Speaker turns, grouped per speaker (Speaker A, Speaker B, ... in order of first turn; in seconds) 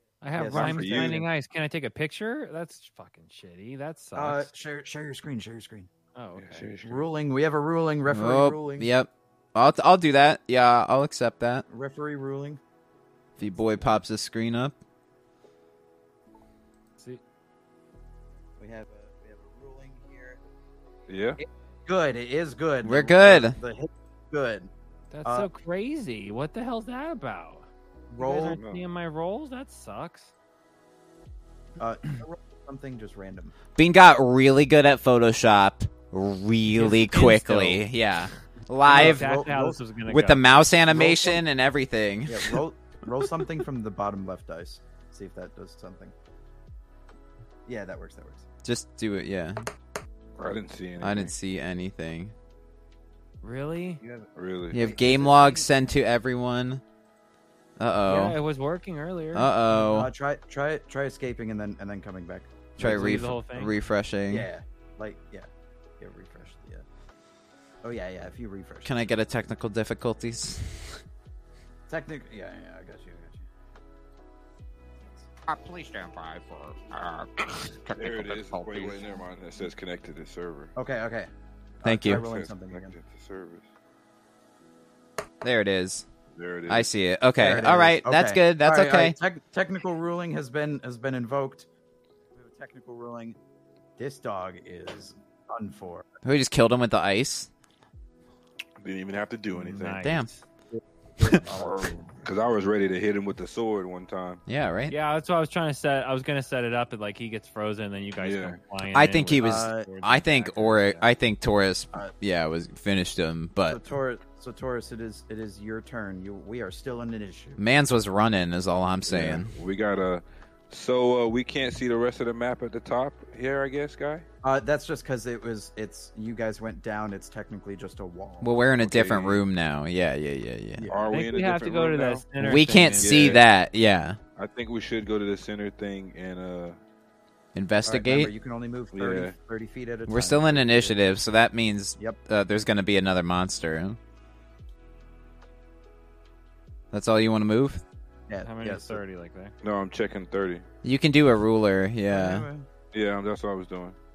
Speaker A: 0.2-4.5, 6.1-6.7, 25.1-30.3, 36.7-37.8, 38.9-40.5, 53.4-54.0, 58.0-59.5, 62.8-63.8, 99.6-100.4, 104.9-111.1, 131.1-133.3, 148.4-149.6
Speaker B: 0.3-1.2, 4.1-5.9, 6.8-8.9, 11.7-12.6, 13.4-13.9, 18.6-20.4, 21.4-24.7, 28.1-28.6, 31.8-33.5, 38.9-39.8, 40.9-41.4, 42.3-46.1, 47.6-48.5, 54.0-55.7, 59.7-63.3, 64.3-65.5, 66.0-66.8, 67.8-68.9, 71.9-73.5, 80.8-81.3, 81.8-82.9, 87.4-91.7, 92.3-93.4, 94.0-96.0, 101.2-102.1, 109.4-109.9, 113.7-117.6, 119.1-119.4, 124.4-128.5, 130.8-131.1, 137.8-141.0, 148.3-149.0, 152.1-152.7
Speaker C: 0.4-1.2, 6.4-7.1, 21.1-21.4, 28.5-28.8, 50.4-51.3, 54.3-54.8, 78.0-80.7, 82.0-83.7, 86.3-86.9, 98.8-100.0, 101.5-104.4, 108.2-108.6, 119.1-124.2, 128.8-129.4, 130.9-132.2, 133.0-133.4, 134.3-136.8, 138.9-139.3, 149.6-150.7, 152.9-154.0
Speaker D: 8.1-11.7, 13.4-14.8, 22.8-23.6, 33.8-39.2, 40.1-42.6, 48.6-49.7, 51.0-52.3, 54.7-56.8, 57.8-58.4, 59.3-60.1, 62.8-64.5, 68.8-71.0, 81.8-82.2, 85.4-86.0, 86.7-89.2, 96.2-97.5, 100.0-100.3, 104.5-104.9, 108.9-113.8, 117.6-119.5, 128.4-130.9, 132.4-134.2, 137.5-138.3, 140.1-144.0, 146.9-147.8, 150.8-152.5
Speaker E: 75.5-79.0